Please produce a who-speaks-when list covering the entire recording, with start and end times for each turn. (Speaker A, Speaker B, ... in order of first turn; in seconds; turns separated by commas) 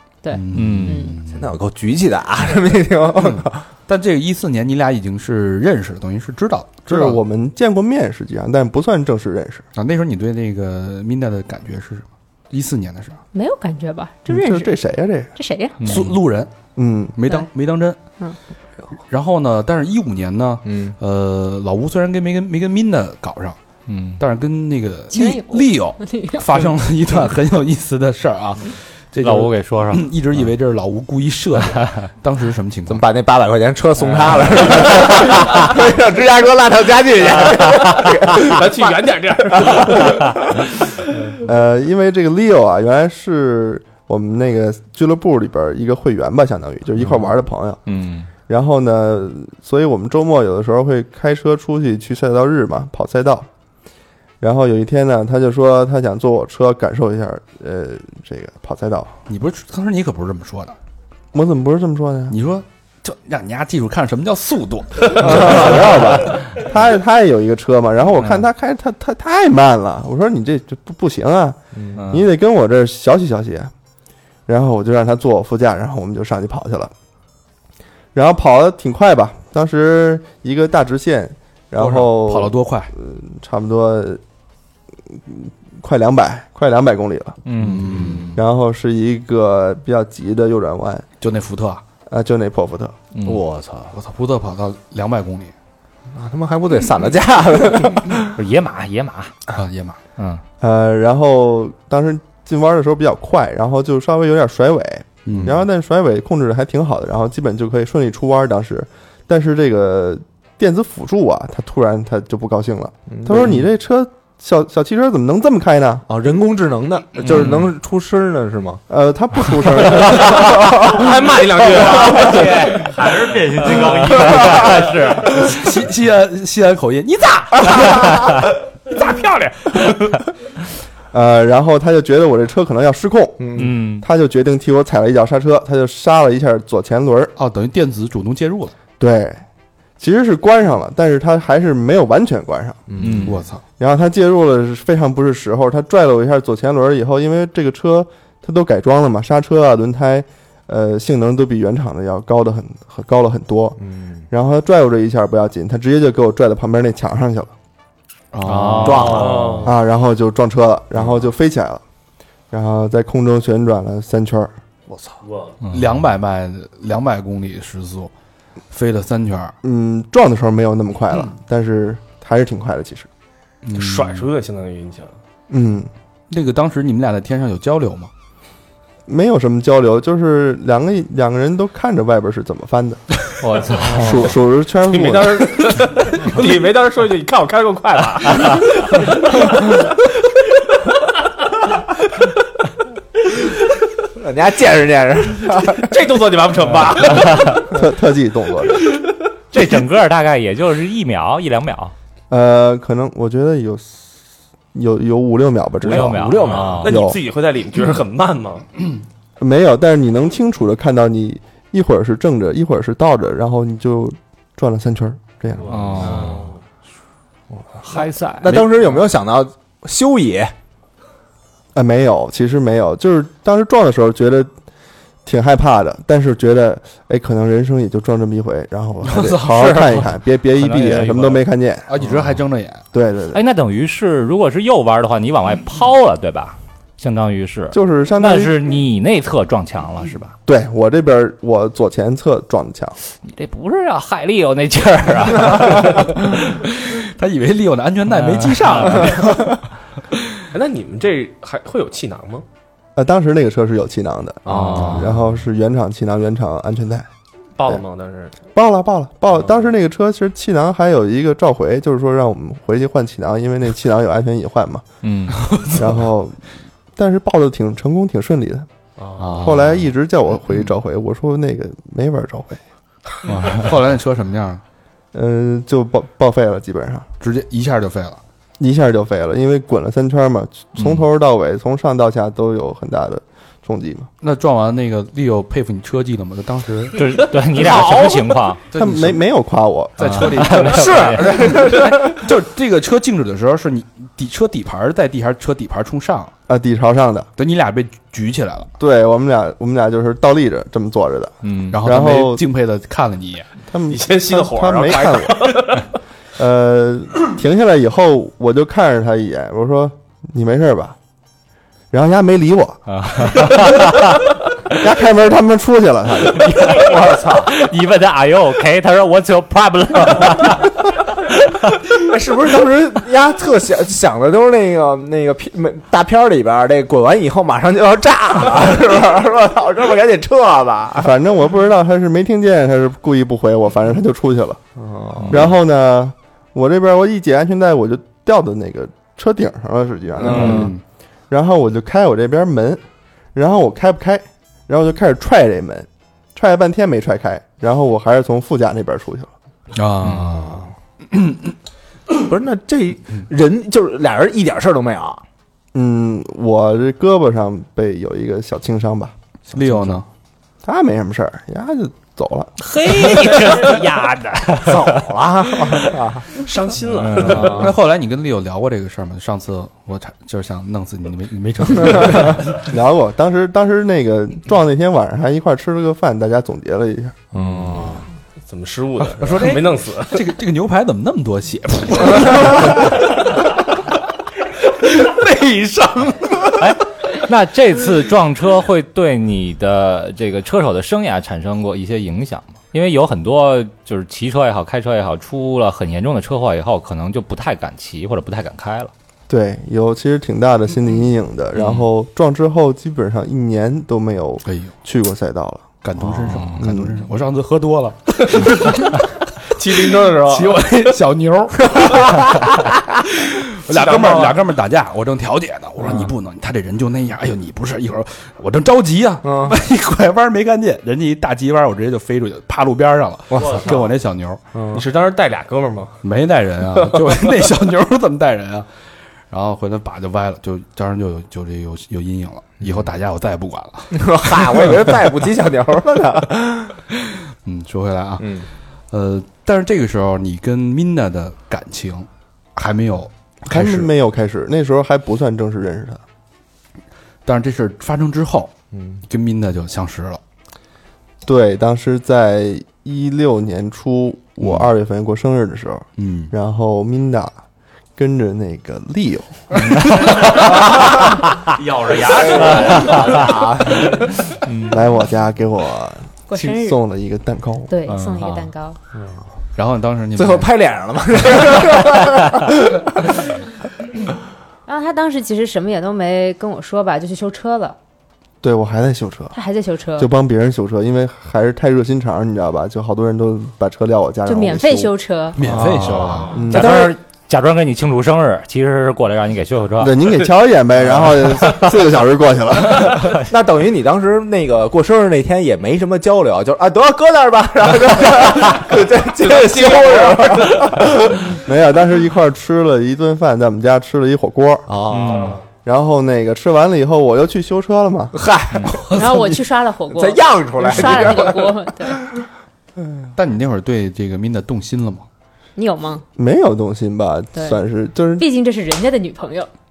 Speaker A: 0.2-1.2, Speaker B: 0.3-1.4, Speaker C: 0.5-1.1, Speaker D: 1.3-3.6, Speaker B: 3.2-7.2, Speaker E: 6.9-9.7, Speaker B: 9.8-13.2, Speaker A: 13.3-14.8, Speaker E: 14.3-15.3, Speaker A: 15.3-16.1, Speaker C: 15.8-16.1, Speaker B: 15.8-16.5, Speaker E: 16.8-17.2, Speaker B: 17.1-18.0, Speaker B: 19.1-23.6, Speaker D: 20.6-21.0, Speaker C: 23.9-24.2, Speaker B: 24.2-33.0, Speaker A: 25.1-26.6, Speaker C: 29.2-30.1, Speaker D: 32.9-40.3, Speaker F: 38.5-40.2, Speaker E: 41.4-47.8, Speaker C: 47.9-48.3, Speaker E: 48.5-53.5, Speaker E: 54.4-59.1, Speaker B: 59.3-60.8, Speaker E: 61.3-62.4, Speaker B: 62.3-65.8, Speaker E: 65.1-73.7, Speaker C: 72.0-72.2, Speaker E: 74.5-76.9, Speaker E: 78.1-84.2, Speaker B: 81.8-82.9, Speaker E: 85.1-87.4, Speaker C: 87.5-88.2, Speaker B: 87.6-88.4, Speaker E: 88.3-91.1, Speaker B: 91.2-91.8, Speaker E: 92.1-93.0, Speaker C: 93.2-93.4, Speaker D: 93.2-94.0, Speaker B: 93.9-95.5, Speaker D: 96.1-98.3, Speaker C: 98.3-99.4, Speaker B: 99.5-100.0, Speaker C: 100.2-100.4, Speaker E: 100.6-116.1, Speaker B: 105.3-105.6, Speaker D: 113.1-113.6, Speaker D: 116.1-118.8, Speaker E: 118.9-120.8, Speaker D: 119.6-121.0, Speaker F: 120.8-122.7, Speaker D: 121.7-122.8, Speaker G: 122.5-125.1, Speaker C: 123.9-125.5, Speaker B: 125.4-128.1, Speaker F: 128.9-129.9, Speaker E: 131.1-137.3, Speaker D: 133.4-133.7, Speaker C: 133.6-134.1, Speaker B: 137.4-138.7, Speaker E: 139.0-139.4, Speaker E: 140.0-142.9, Speaker D: 142.9-143.3, Speaker C: 143.0-143.3, Speaker B: 143.2-143.6, Speaker E: 143.8-153.8, Speaker D: 153.8-154.2, Speaker E: 154.3-157.5, Speaker B: 158.3-159.4, Speaker C: 158.4-159.6, Speaker D: 158.8-159.6, Speaker F: 159.1-159.7, Speaker E: 159.6-161.8, Speaker E: 162.5-164.5, Speaker B: 165.7-168.1, Speaker B: 168.7-169.6, Speaker E: 169.6-173.1, Speaker B: 173.7-174.3, Speaker F: 173.7-175.2, Speaker E: 175.5-175.9, Speaker B: 176.3-178.1, Speaker E: 179.1-183.2, Speaker C: 183.4-184.3, Speaker E: 183.9-185.6, Speaker F: 184.0-184.3, Speaker F: 184.9-189.5, Speaker D: 194.2-195.9, Speaker F: 195.9-197.6, Speaker E: 197.7-198.9, Speaker C: 199.5-201.9, Speaker E: 202.3-204.0, Speaker E: 204.7-207.2, Speaker C: 205.8-207.0, Speaker F: 205.9-208.7, Speaker D: 206.3-206.6, Speaker E: 209.4-215.9, Speaker C: 215.7-216.5, Speaker F: 216.1-216.5, Speaker C: 217.9-218.5, Speaker D: 217.9-220.5, Speaker E: 221.8-224.5, Speaker E: 225.2-231.9, Speaker B: 229.0-232.8, Speaker E: 232.9-233.4, Speaker C: 233.3-240.3, Speaker E: 237.7-238.7, Speaker E: 240.5-243.0, Speaker C: 243.3-246.4, Speaker B: 246.8-249.6, Speaker C: 248.1-249.3, Speaker F: 250.5-252.4, Speaker E: 253.0-257.1, Speaker D: 254.5-255.0, Speaker C: 254.5-254.9, Speaker F: 257.6-258.3, Speaker E: 258.6-264.8, Speaker C: 265.0-265.4, Speaker B: 265.3-265.8, Speaker E: 265.7-266.4, Speaker E: 267.0-268.7, Speaker F: 269.0-269.3, Speaker B: 269.2-269.8, Speaker E: 269.4-272.6, Speaker B: 273.3-274.6, Speaker E: 275.1-277.1, Speaker B: 277.2-278.2, Speaker E: 278.6-284.1, Speaker B: 284.2-287.0, Speaker C: 286.9-288.6, Speaker D: 287.2-288.4, Speaker B: 288.7-289.2, Speaker E: 288.7-290.5, Speaker B: 290.0-296.3, Speaker C: 290.0-291.7, Speaker D: 290.7-292.1, Speaker E: 296.5-297.3, Speaker B: 297.4-298.7, Speaker E: 298.8-302.4, Speaker C: 301.4-301.8, Speaker B: 301.7-303.5, Speaker E: 303.7-305.6, Speaker F: 303.9-305.9, Speaker E: 306.4-311.0, Speaker E: 311.9-313.5, Speaker C: 312.9-314.0, Speaker E: 314.7-316.8, Speaker C: 316.4-320.8, Speaker D: 316.9-317.2, Speaker D: 321.9-331.1, Speaker E: 331.0-334.6, Speaker D: 334.8-335.4, Speaker E: 335.3-340.7, Speaker D: 340.2-340.7, Speaker B: 340.3-340.8, Speaker E: 341.3-342.8, Speaker E: 343.4-349.3, Speaker B: 349.7-351.4, Speaker D: 350.2-350.7, Speaker D: 352.1-355.2, Speaker E: 355.7-359.1, Speaker B: 359.5-360.1, Speaker D: 359.5-360.0, Speaker E: 360.6-362.6, Speaker C: 362.6-365.9, Speaker D: 363.3-363.5, Speaker D: 364.6-366.3, Speaker F: 366.4-367.7, Speaker C: 366.9-367.6, Speaker D: 367.3-367.6, Speaker B: 367.3-372.5, Speaker E: 372.5-377.2, Speaker D: 377.3-378.0, Speaker B: 377.4-377.9, Speaker F: 378.4-380.2, Speaker B: 379.2-382.9, Speaker F: 385.1-386.2, Speaker C: 386.6-398.9, Speaker E: 399.3-405.7, Speaker B: 404.5-404.7, Speaker B: 405.8-408.9, Speaker E: 406.5-407.0, Speaker F: 408.4-408.9, Speaker F: 409.6-410.8, Speaker B: 410.2-412.1, Speaker B: 413.2-424.4, Speaker F: 413.7-414.4, Speaker D: 419.2-419.6, Speaker D: 423.3-423.7, Speaker D: 424.5-424.8, Speaker F: 424.7-426.0, Speaker B: 426.0-428.7, Speaker B: 429.3-434.7, Speaker D: 433.9-436.8, Speaker B: 437.4-438.3, Speaker D: 438.2-438.5, Speaker B: 438.9-443.9, Speaker E: 443.5-446.0, Speaker B: 447.2-448.6, Speaker D: 448.7-449.0, Speaker B: 449.1-450.2, Speaker E: 451.2-457.3, Speaker B: 454.4-454.7, Speaker B: 456.0-456.3, Speaker E: 458.0-460.3, Speaker G: 461.5-463.4, Speaker D: 462.1-464.1, Speaker C: 462.6-463.0, Speaker C: 464.4-464.8, Speaker E: 464.7-467.7, Speaker A: 466.3-466.8, Speaker A: 467.7-468.8, Speaker C: 467.9-468.5, Speaker B: 469.6-470.5, Speaker D: 470.2-472.9, Speaker A: 474.7-477.8, Speaker E: 478.4-479.4, Speaker A: 479.3-480.1, Speaker E: 480.0-484.9, Speaker A: 484.3-485.4, Speaker B: 485.4-486.4, Speaker D: 485.4-486.9, Speaker E: 486.3-486.9, Speaker C: 486.5-490.0, Speaker E: 489.8-493.1, Speaker D: 493.3-500.9, Speaker E: 499.0-499.4, Speaker F: 499.5-500.2, Speaker E: 500.5-504.7, Speaker D: 504.7-505.4, Speaker C: 504.9-505.4, Speaker E: 505.6-508.2, Speaker D: 508.1-509.2, Speaker B: 508.6-509.1, Speaker A: 508.9-512.0, Speaker D: 509.9-511.6, Speaker B: 513.1-515.1, Speaker A: 515.6-516.0, Speaker E: 516.2-518.3, Speaker A: 517.4-517.6, Speaker A: 518.2-519.5